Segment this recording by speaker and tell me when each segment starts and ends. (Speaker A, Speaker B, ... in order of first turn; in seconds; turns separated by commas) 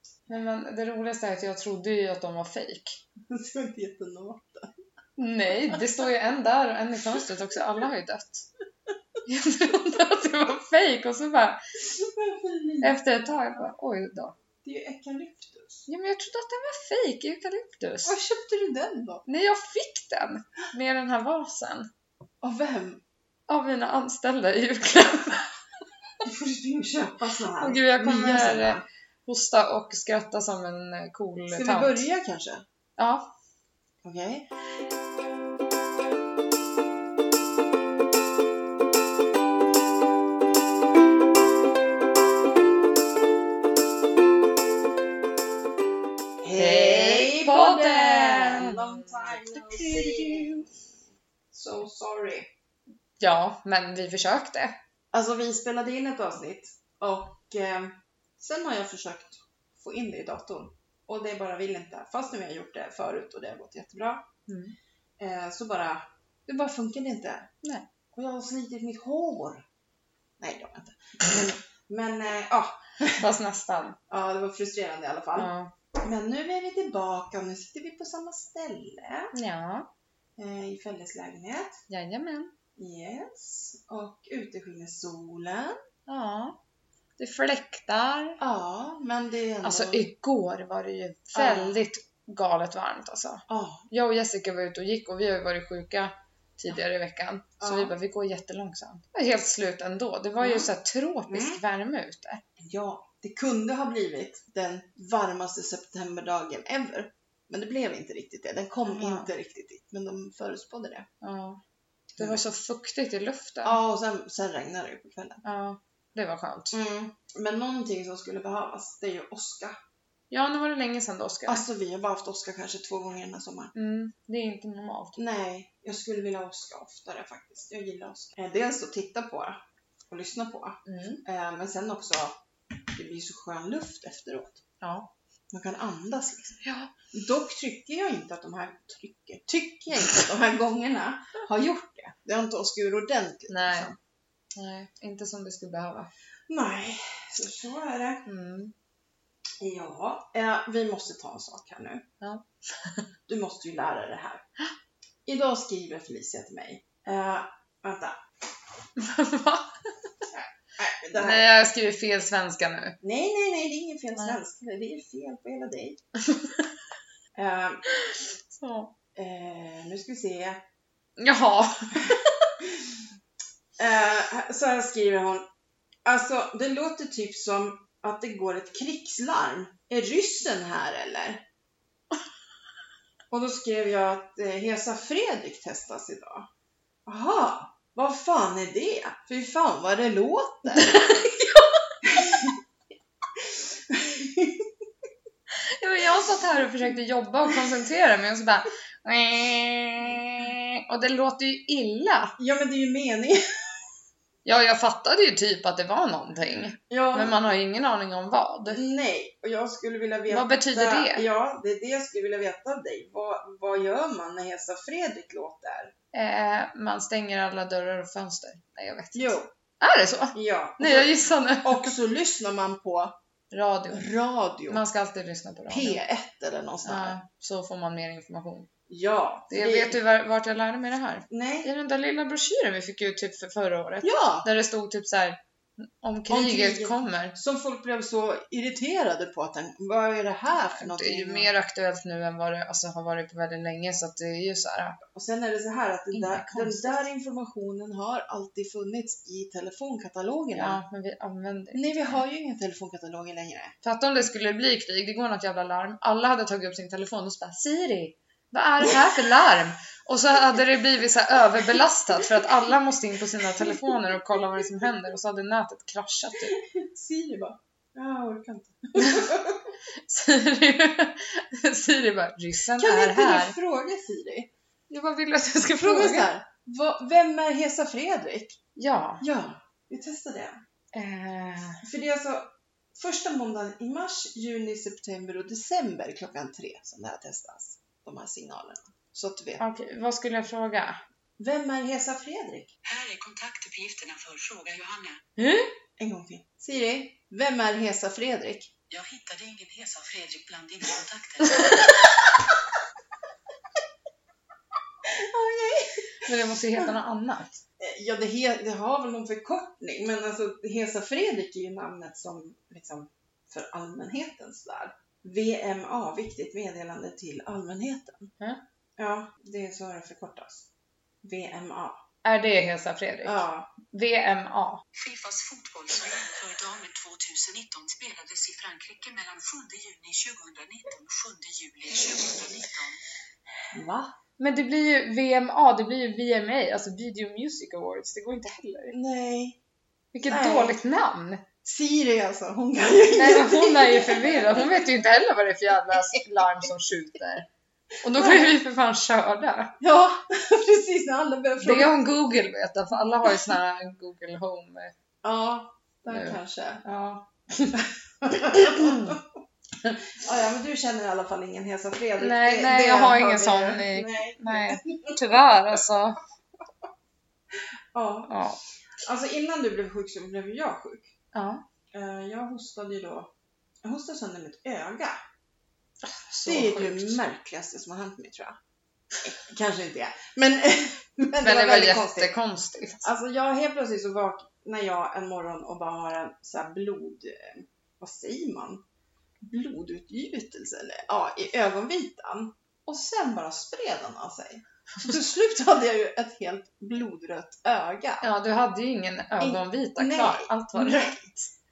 Speaker A: 0.3-3.0, Speaker B: 3.3-4.7, Speaker A: 5.2-8.4, Speaker A: 9.2-11.6, Speaker B: 11.8-12.9, Speaker A: 12.8-14.3, Speaker B: 14.6-15.9, Speaker A: 15.9-18.2, Speaker B: 18.0-19.2, Speaker A: 19.2-21.9, Speaker B: 22.4-23.0, Speaker A: 23.5-25.5, Speaker B: 26.2-28.8, Speaker A: 27.6-32.0, Speaker B: 31.5-32.6, Speaker A: 33.0-33.3, Speaker B: 34.0-34.5, Speaker B: 46.4-50.7, Speaker A: 46.5-50.6, Speaker B: 51.5-52.5, Speaker A: 53.2-54.8, Speaker B: 55.1-64.3, Speaker A: 64.5-64.7, Speaker B: 65.2-67.5, Speaker B: 68.1-69.6, Speaker B: 70.4-73.2, Speaker A: 73.2-74.0, Speaker B: 74.1-79.3, Speaker A: 75.3-75.7, Speaker A: 79.3-79.9, Speaker B: 80.4-81.8, Speaker A: 81.9-82.5, Speaker B: 82.8-85.8, Speaker A: 86.0-86.6, Speaker A: 87.2-88.4, Speaker B: 88.4-90.1, Speaker A: 89.6-102.4, Speaker B: 91.3-91.8, Speaker B: 93.5-93.9, Speaker B: 97.6-97.9, Speaker B: 100.4-100.7, Speaker B: 101.3-101.6, Speaker B: 102.6-111.1, Speaker A: 108.9-109.3, Speaker A: 111.2-111.6, Speaker A: 112.2-113.8, Speaker B: 113.6-115.4, Speaker A: 115.4-116.7, Speaker B: 116.7-119.8, Speaker A: 120.3-121.6, Speaker B: 121.5-123.7, Speaker A: 123.7-125.2, Speaker B: 125.2-129.6, Speaker B: 130.1-132.4, Speaker A: 130.8-131.2, Speaker B: 132.9-134.6, Speaker A: 134.8-135.1, Speaker B: 135.5-144.0, Speaker A: 136.6-136.9, Speaker A: 143.5-143.9, Speaker A: 144.5-146.1, Speaker B: 146.5-148.2, Speaker A: 148.2-148.7, Speaker B: 149.6-152.1, Speaker A: 152.2-153.1, Speaker B: 153.3-154.4, Speaker B: 155.2-158.2, Speaker A: 159.0-159.8, Speaker B: 160.3-161.4, Speaker A: 161.1-163.0, Speaker B: 163.0-166.0, Speaker A: 166.2-166.7, Speaker B: 167.3-167.8, Speaker A: 167.9-168.9, Speaker B: 169.2-170.6, Speaker A: 171.2-172.4, Speaker B: 172.6-173.0, Speaker B: 173.8-175.4, Speaker B: 176.1-181.4, Speaker B: 183.3-186.5, Speaker B: 187.1-191.2, Speaker A: 190.7-191.8, Speaker B: 192.0-192.6, Speaker B: 193.4-194.7, Speaker A: 195.8-202.3, Speaker B: 202.4-203.4, Speaker A: 204.4-208.8, Speaker B: 206.9-207.5, Speaker B: 208.7-215.9, Speaker A: 210.3-211.2, Speaker A: 216.1-221.9, Speaker B: 219.1-219.5, Speaker B: 220.3-223.2, Speaker A: 223.5-224.1, Speaker B: 223.9-224.8, Speaker A: 224.7-226.0, Speaker B: 225.7-227.2, Speaker A: 226.8-228.7, Speaker B: 228.9-230.0, Speaker A: 229.5-237.3, Speaker B: 231.3-231.7, Speaker B: 234.0-234.5, Speaker B: 236.3-241.5, Speaker A: 240.5-245.0, Speaker B: 245.1-250.8, Speaker A: 246.1-247.0, Speaker A: 250.5-252.2, Speaker B: 251.7-253.8, Speaker A: 253.8-266.6, Speaker B: 263.6-263.9, Speaker B: 266.5-269.7, Speaker A: 269.0-269.3, Speaker A: 269.9-273.6, Speaker B: 272.8-274.5, Speaker A: 274.9-276.3, Speaker B: 275.8-278.6, Speaker A: 278.8-279.2, Speaker B: 279.2-280.6, Speaker A: 280.9-281.8, Speaker B: 281.8-289.6, Speaker A: 289.6-291.0, Speaker B: 291.4-292.7, Speaker C: 292.8-295.2, Speaker A: 295.4-295.7, Speaker B: 296.0-298.7, Speaker C: 298.9-301.9, Speaker A: 301.5-301.8, Speaker B: 305.1-306.9, Speaker A: 306.2-307.6, Speaker B: 307.8-318.3, Speaker B: 319.0-320.7, Speaker B: 321.2-322.0, Speaker A: 322.2-324.8, Speaker B: 323.2-323.7, Speaker C: 324.9-333.0, Speaker B: 333.7-334.1, Speaker A: 334.4-338.9, Speaker B: 338.9-339.6, Speaker A: 340.1-341.4, Speaker B: 340.2-340.8, Speaker B: 341.6-344.8, Speaker A: 343.1-347.5, Speaker A: 348.0-349.7, Speaker B: 348.1-348.5, Speaker B: 349.8-352.0, Speaker A: 351.6-354.9, Speaker B: 355.2-356.8, Speaker A: 356.1-357.8, Speaker B: 357.7-359.2, Speaker A: 358.5-359.1, Speaker B: 359.8-365.2, Speaker A: 362.2-366.2, Speaker B: 367.9-368.4, Speaker A: 368.3-368.6, Speaker B: 369.0-371.1, Speaker A: 371.3-371.6, Speaker B: 371.9-373.3, Speaker B: 373.8-375.2, Speaker A: 376.0-377.2, Speaker B: 376.4-378.6, Speaker B: 379.1-382.3, Speaker A: 381.3-383.1, Speaker B: 383.0-388.8, Speaker B: 389.4-398.3, Speaker A: 398.2-401.5, Speaker B: 399.4-401.3